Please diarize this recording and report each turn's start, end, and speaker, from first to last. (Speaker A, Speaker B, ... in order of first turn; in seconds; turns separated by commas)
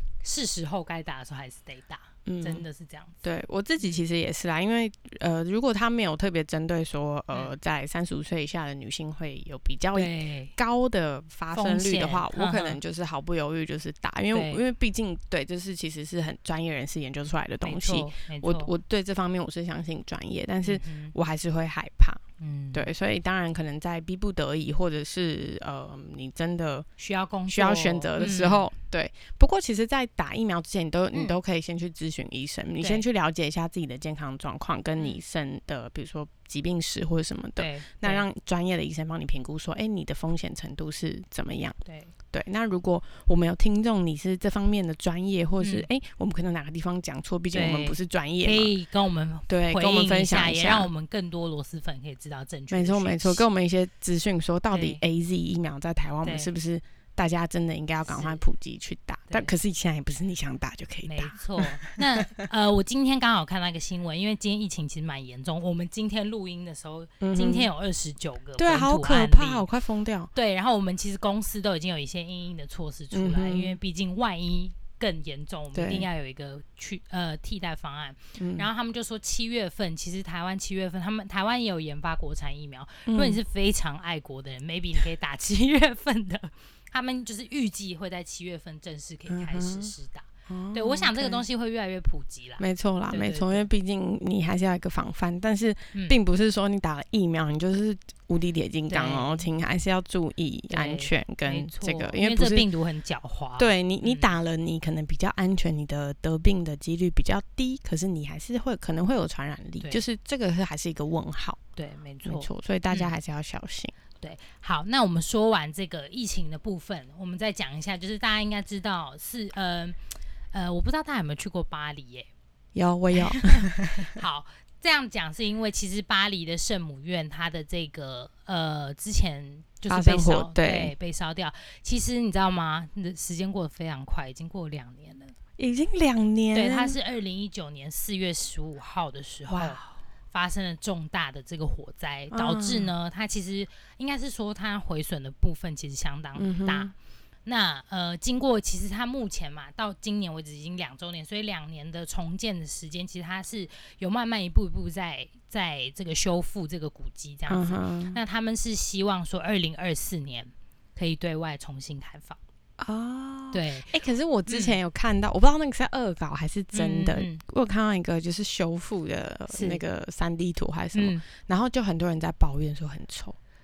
Speaker A: 0.2-3.2, Speaker B: 2.3-2.6, Speaker B: 3.2-26.9, Speaker A: 9.9-10.6, Speaker A: 11.5-12.8, Speaker A: 14.3-14.6, Speaker A: 17.6-18.7, Speaker A: 20.6-21.1, Speaker A: 22.4-22.9, Speaker A: 27.0-28.7, Speaker B: 27.5-41.8, Speaker A: 32.8-33.0, Speaker A: 37.6-38.2, Speaker A: 41.9-42.1, Speaker B: 42.3-48.7, Speaker A: 45.6-45.9, Speaker A: 47.5-53.4, Speaker B: 49.5-50.9, Speaker B: 52.7-62.0, Speaker A: 54.7-55.0, Speaker A: 56.2-56.5, Speaker A: 58.1-58.4, Speaker A: 59.3-59.5, Speaker A: 61.0-69.7, Speaker B: 67.2-67.7, Speaker B: 68.6-70.3, Speaker A: 70.3-93.7, Speaker B: 73.1-73.8, Speaker B: 75.7-76.1, Speaker B: 78.4-78.7, Speaker B: 83.1-83.4, Speaker B: 89.3-89.9, Speaker B: 90.5-91.4, Speaker B: 92.6-102.7, Speaker A: 98.9-99.5, Speaker A: 100.7-104.3, Speaker B: 103.6-111.6, Speaker A: 111.8-113.1, Speaker B: 112.2-114.0, Speaker A: 114.2-120.0, Speaker A: 120.5-122.3, Speaker B: 122.8-124.1, Speaker A: 123.2-135.3, Speaker B: 129.9-130.9, Speaker B: 135.6-137.0, Speaker A: 136.5-146.9, Speaker B: 139.5-139.9, Speaker B: 142.3-142.9, Speaker B: 146.4-146.9, Speaker A: 147.5-162.4, Speaker B: 157.5-158.2, Speaker B: 162.8-173.4, Speaker A: 163.5-163.9, Speaker A: 164.5-164.8, Speaker A: 166.7-167.4, Speaker A: 169.5-169.8, Speaker A: 170.9-171.2